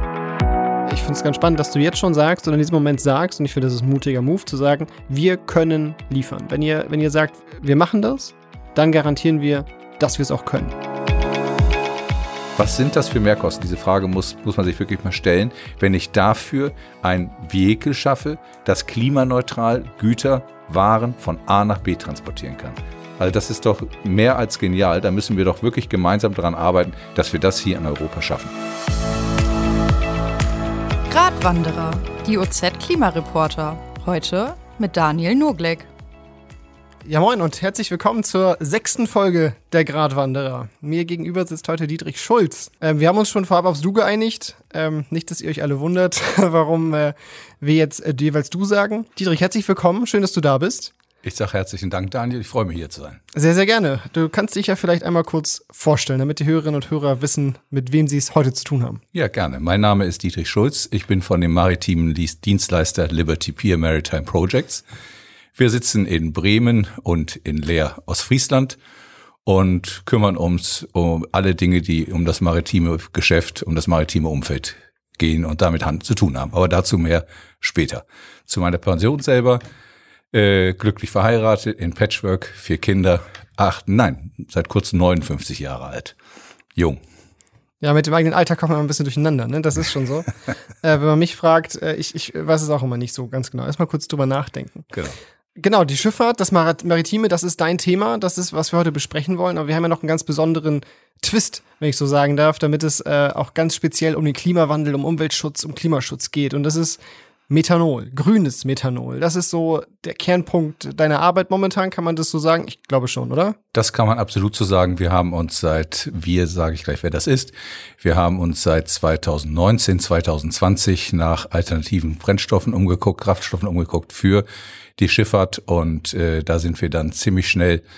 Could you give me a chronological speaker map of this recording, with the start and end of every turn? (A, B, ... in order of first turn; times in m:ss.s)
0:00.9-0:10.8 A
0:12.6-0:28.5 B
0:31.1-0:35.9 C
0:37.0-0:50.9 A
0:51.2-0:53.2 B
0:53.3-0:59.0 A
0:59.1-1:04.8 B
1:05.5-1:08.8 B
1:09.4-1:19.6 B
1:20.3-1:26.1 B
1:27.8-1:30.3 A
1:30.8-1:34.9 A
1:34.9-1:35.2 B
1:35.6-1:53.6 A
1:53.7-2:04.4 B
2:05.0-2:07.8 B